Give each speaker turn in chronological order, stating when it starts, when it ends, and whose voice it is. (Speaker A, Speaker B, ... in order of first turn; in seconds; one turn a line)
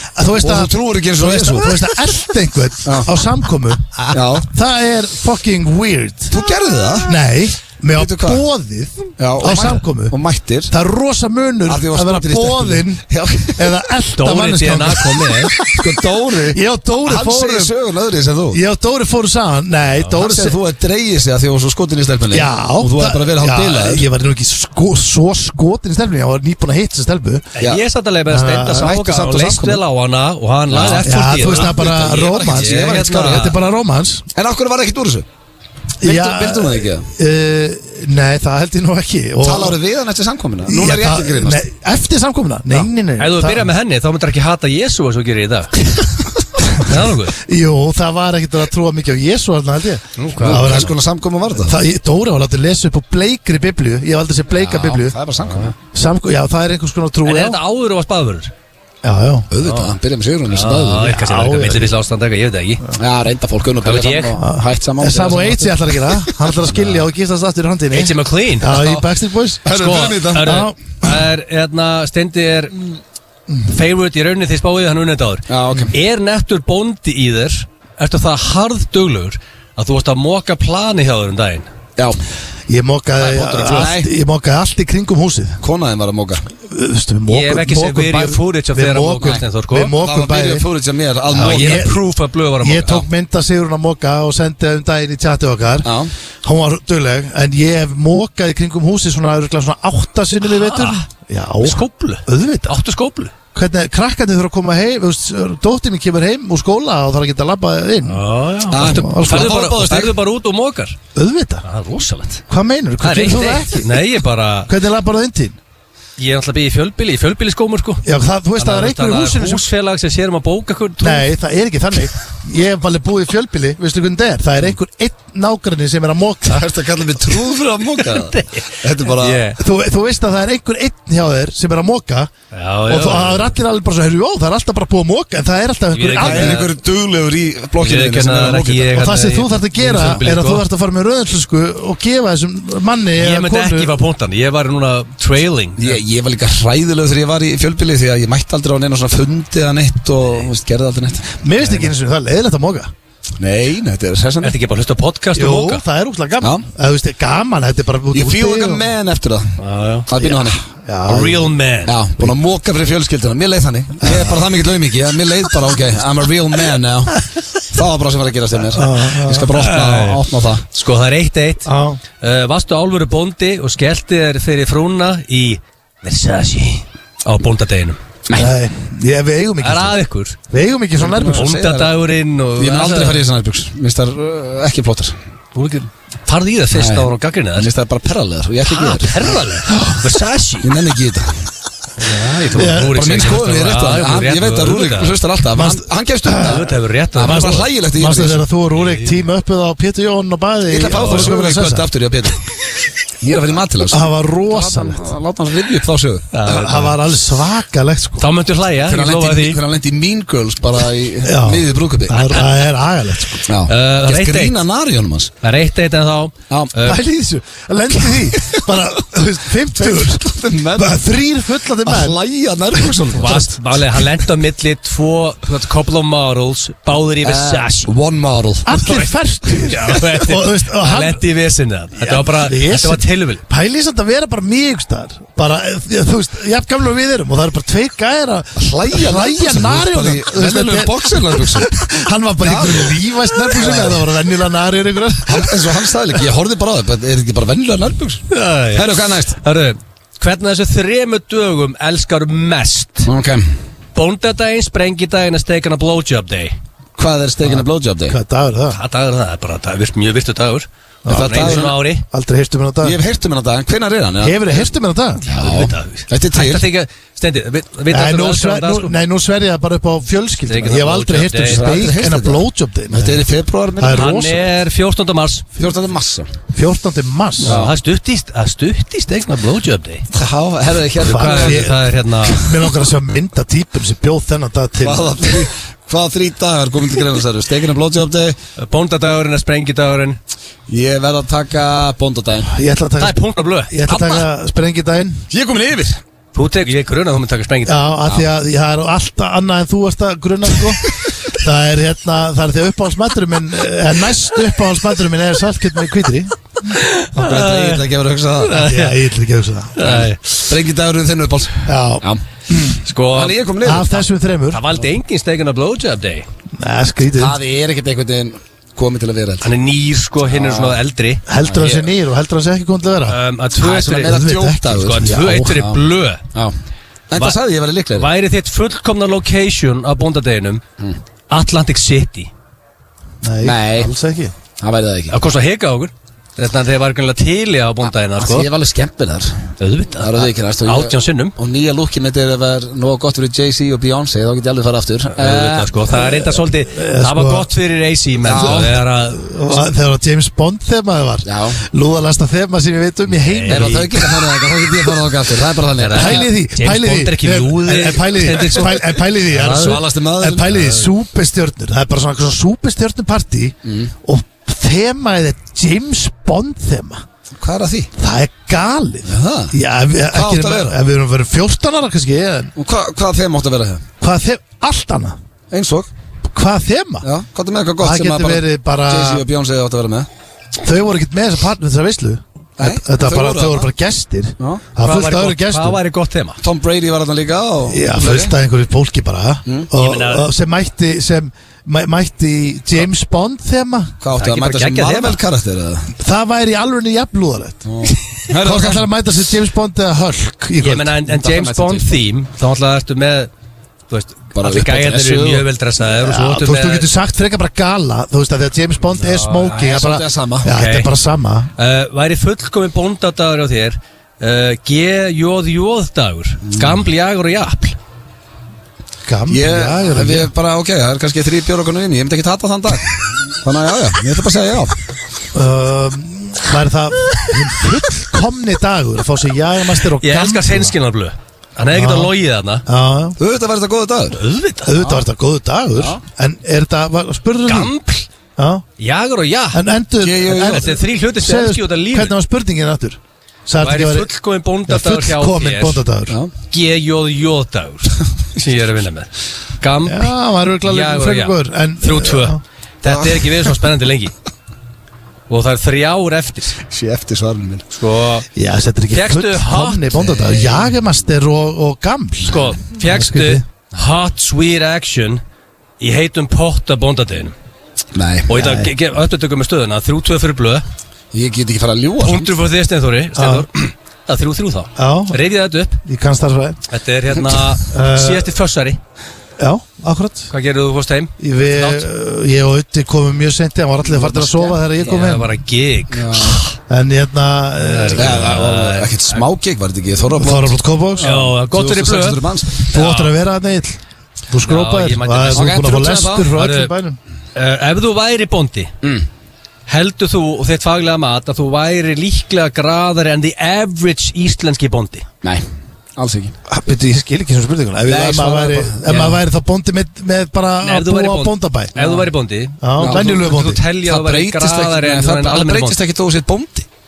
Speaker A: 0.1-6.4
Speaker B: 0.4-1.9
Speaker B: 2.8-3.1
Speaker B: 4.1-4.5
Speaker B: 6.3-7.2
Speaker A: 7.0-10.2
Speaker B: 8.0-8.4
Speaker B: 9.2-10.7
Speaker A: 10.7-13.0
Speaker B: 11.7-13.7
Speaker A: 13.5-17.7
Speaker C: 14.2-15.5
Speaker B: 15.6-18.6
Speaker A: 18.5-20.6
Speaker B: 20.1-24.1
Speaker A: 22.3-27.5
Speaker C: 27.6-33.5
Speaker A: 28.3-28.9
Speaker B: 28.7-29.8
Speaker B: 30.7-33.5
Speaker A: 30.8-34.2
Speaker B: 34.3-35.2
Speaker A: 36.0-39.8
Speaker B: 36.0-37.1
Speaker B: 39.4-41.6
Speaker A: 40.6-43.7
Speaker C: 43.2-45.7
Speaker A: 46.6-50.9
Speaker C: 46.8-47.4
Speaker C: 50.2-50.9
Speaker B: 50.4-51.8
Speaker A: 51.6-55.1
Speaker B: 54.5-55.7
Speaker A: 55.9-57.6
Speaker C: 57.2-58.5
Speaker A: 59.0-59.5
Speaker B: 59.5-61.1
Speaker C: 59.6-59.9
Speaker C: 60.5-62.9
Speaker A: 61.0-61.9
Speaker B: 63.0-66.4
Speaker C: 63.8-64.3
Speaker A: 64.4-69.7
Speaker C: 67.9-69.0
Speaker B: 69.6-70.5
Speaker C: 69.6-72.8
Speaker A: 70.4-71.1
Speaker C: 73.7-81.7
Speaker B: 75.5-75.9
Speaker A: 82.7-85.6
Speaker C: 83.2-83.9
Speaker B: 83.6-84.1
Speaker B: 85.6-86.4
Speaker A: 86.7-90.6
Speaker C: 87.3-89.9
Speaker B: 90.0-91.9
Speaker A: 91.3-92.0
Speaker C: 91.4-93.0
Speaker A: 92.6-95.9
Speaker B: 95.8-96.1
Speaker A: 96.4-102.8
Speaker C: 100.4-101.0
Speaker C: 101.6-103.3
Speaker A: 103.5-109.7
Speaker C: 108.0-111.0
Speaker B: 108.7-110.2
Speaker A: 111.1-111.6
Speaker C: 111.6-112.4
Speaker A: 112.5-113.9
Speaker C: 113.0-114.7
Speaker A: 114.7-115.6
Speaker C: 116.2-118.0
Speaker A: 118.0-119.7
Speaker C: 118.6-121.3
Speaker A: 121.0-126.7
Speaker B: 126.5-129.4
Speaker C: 128.0-129.6
Speaker A: 129.6-132.3
Speaker C: 132.5-133.6
Speaker A: 132.9-136.7
Speaker C: 135.9-136.7
Speaker B: 136.2-139.0
Speaker C: 137.8-140.6
Speaker A: 138.9-143.9
Speaker C: 143.2-146.0
Speaker B: 145.8-151.4
Speaker A: 151.4-152.9
Speaker C: 151.6-151.9
Speaker B: 153.4-154.5
Speaker C: 154.4-155.8
Speaker A: 155.3-158.8
Speaker B: 158.1-160.6
Speaker C: 159.6-160.1
Speaker A: 160.2-161.4
Speaker C: 161.1-161.9
Speaker B: 161.9-170.6
Speaker A: 164.0-164.4
Speaker A: 168.7-169.5
Speaker C: 169.5-171.7
Speaker A: 171.7-172.0
Speaker C: 172.2-178.0
Speaker B: 178.3-178.5
Speaker A: 178.3-180.0
Speaker C: 179.6-180.4
Speaker A: 180.5-181.4
Speaker B: 180.9-182.0
Speaker C: 181.3-183.2
Speaker B: 182.6-185.2
Speaker C: 185.5-187.7
Speaker B: 186.7-189.3
Speaker C: 188.7-190.7
Speaker A: 189.7-190.0
Speaker B: 190.6-191.4
Speaker C: 192.0-195.2
Speaker A: 192.5-193.0
Speaker B: 192.6-198.4
Speaker A: 195.5-196.7
Speaker C: 196.4-197.7
Speaker A: 197.2-201.9
Speaker C: 198.7-199.2
Speaker B: 200.7-202.4
Speaker C: 200.9-201.3
Speaker B: 203.2-206.3
Speaker A: 203.9-205.1
Speaker C: 206.3-206.9
Speaker A: 206.4-208.3
Speaker C: 208.2-209.6
Speaker B: 208.8-212.3
Speaker A: 211.2-213.5
Speaker B: 213.4-215.3
Speaker C: 213.7-214.6
Speaker C: 215.4-217.0
Speaker A: 216.8-222.2
Speaker B: 218.1-218.6
Speaker B: 219.7-221.1
Speaker B: 221.8-223.6
Speaker C: 222.9-227.9
Speaker B: 227.2-228.8
Speaker A: 228.7-231.2
Speaker C: 228.8-233.4
Speaker A: 231.9-245.9
Speaker B: 238.6-241.8
Speaker B: 242.4-243.0
Speaker B: 243.5-244.0
Speaker B: 245.3-249.4
Speaker C: 248.3-253.1
Speaker B: 253.1-253.5
Speaker C: 253.9-256.6
Speaker B: 257.0-258.2
Speaker A: 258.1-258.8
Speaker C: 258.7-262.0
Speaker A: 261.0-263.0
Speaker B: 261.1-261.7
Speaker B: 262.8-264.6
Speaker A: 264.2-265.2
Speaker C: 265.2-268.9
Speaker B: 265.2-266.6
Speaker A: 267.9-273.2
Speaker C: 270.5-271.8
Speaker B: 271.4-274.1
Speaker A: 273.8-274.4
Speaker C: 273.9-275.4
Speaker B: 275.6-276.3
Speaker A: 276.5-277.6
Speaker C: 277.4-280.1
Speaker B: 277.4-277.7
Speaker B: 280.1-281.7
Speaker A: 281.0-285.3
Speaker C: 281.0-282.4
Speaker B: 282.4-282.7
Speaker B: 284.8-288.4
Speaker C: 288.6-290.2
Speaker B: 290.7-292.5
Speaker A: 292.4-295.2
Speaker C: 293.0-293.7
Speaker B: 293.9-294.2
Speaker B: 295.3-296.0
Speaker C: 296.3-297.8
Speaker A: 297.6-306.3
Speaker C: 306.6-307.8
Speaker B: 307.1-308.6
Speaker C: 308.4-309.0
Speaker A: 308.5-310.1
Speaker C: 309.8-310.5
Speaker B: 310.5-312.2
Speaker A: 311.6-312.8
Speaker C: 312.8-313.4
Speaker B: 313.1-314.0
Speaker A: 313.6-314.6
Speaker C: 314.5-316.3
Speaker A: 316.5-317.4
Speaker B: 317.1-319.5
Speaker C: 319.4-321.2
Speaker B: 320.3-320.8
Speaker A: 321.3-323.2
Speaker B: 321.4-321.8
Speaker C: 323.1-326.2
Speaker B: 323.6-326.5
Speaker A: 324.0-325.6
Speaker B: 327.1-328.1
Speaker C: 327.9-330.6
Speaker C: 331.3-332.3
Speaker A: 333.2-334.3
Speaker B: 333.4-333.9
Speaker B: 334.6-335.2
Speaker C: 335.1-338.5
Speaker B: 338.2-345.7
Speaker C: 339.6-341.3
Speaker C: 345.1-349.6
Speaker A: 345.9-347.5
Speaker B: 348.2-348.8
Speaker A: 348.3-354.3
Speaker B: 351.2-351.6
Speaker C: 353.1-353.9
Speaker B: 353.5-356.3
Speaker C: 355.8-359.8
Speaker A: 355.9-367.0
Speaker B: 359.4-360.8
Speaker B: 363.6-363.9
Speaker B: 367.4-367.9
Speaker A: 368.0-372.5
Speaker B: 369.1-369.5
Speaker B: 370.1-370.8
Speaker B: 372.6-373.9
Speaker A: 374.0-375.2
Speaker B: 375.5-375.9
Speaker A: 376.3-377.1
Speaker B: 377.0-380.1
Speaker A: 377.8-379.2
Speaker A: 380.6-385.8
Speaker B: 382.6-383.7
Speaker B: 384.4-384.6
Speaker C: 384.8-386.4
Speaker B: 386.4-388.3
Speaker A: 387.7-393.9
Speaker C: 389.8-390.3
Speaker B: 394.0-395.9
Speaker C: 394.2-395.2
Speaker A: 396.0-397.6
Speaker B: 397.6-398.9
Speaker A: 398.3-400.9
Speaker C: 400.6-403.3
Speaker B: 401.1-402.0
Speaker C: 403.9-406.9
Speaker B: 404.3-405.4
Speaker A: 405.9-411.5
Speaker C: 409.0-409.5
Speaker B: 409.3-410.5
Speaker C: 410.5-410.9
Speaker C: 411.6-417.8
Speaker B: 416.5-416.8
Speaker A: 419.1-420.3
Speaker B: 419.3-424.8
Speaker A: 425.3-430.7
Speaker C: 430.0-432.6
Speaker A: 431.7-432.1
Speaker A: 432.6-433.2
Speaker B: 433.2-434.2
Speaker C: 434.1-434.7
Speaker A: 434.6-437.7
Speaker B: 434.8-435.0
Speaker B: 435.7-436.0
Speaker C: 437.4-438.1
Speaker A: 438.4-438.6
Speaker C: 438.8-439.6
Speaker A: 439.5-444.1
Speaker B: 440.0-440.8
Speaker C: 440.4-442.1
Speaker C: 443.6-445.8
Speaker A: 444.7-446.2
Speaker C: 446.5-454.1
Speaker A: 449.9-452.4
Speaker B: 452.9-453.5
Speaker C: 455.3-456.6
Speaker B: 456.6-457.6
Speaker C: 457.8-458.2
Speaker A: 458.3-463.4
Speaker C: 458.9-460.6
Speaker C: 462.2-465.2
Speaker C: 465.8-467.3
Speaker B: 467.9-468.4
Speaker C: 468.3-470.6
Speaker A: 468.3-468.7
Speaker B: 471.1-472.3
Speaker C: 472.0-475.8
Speaker A: 473.1-473.5
Speaker A: 474.8-475.2
Speaker A: 475.8-476.6
Speaker C: 476.7-478.8
Speaker B: 477.1-477.5
Speaker A: 477.7-478.3
Speaker A: 479.4-480.3
Speaker C: 480.3-481.9
Speaker A: 481.2-485.3
Speaker B: 483.9-484.5
Speaker C: 484.7-486.6
Speaker B: 485.9-486.4
Speaker A: 486.7-488.3
Speaker C: 487.6-489.2
Speaker B: 487.9-492.6
Speaker A: 490.1-491.3
Speaker C: 491.0-493.1
Speaker A: 492.7-493.8
Speaker A: 494.3-497.0
Speaker C: 494.4-495.6
Speaker B: 495.3-496.3
Speaker C: 496.3-496.7
Speaker C: 497.3-498.7
Speaker C: 499.7-505.1
Speaker B: 505.2-506.3
Speaker A: 506.5-511.7
Speaker B: 507.9-509.1
Speaker C: 508.9-509.1
Speaker C: 510.6-515.8
Speaker B: 511.7-512.1
Speaker A: 512.6-513.6
Speaker B: 512.8-513.1
Speaker B: 513.8-516.7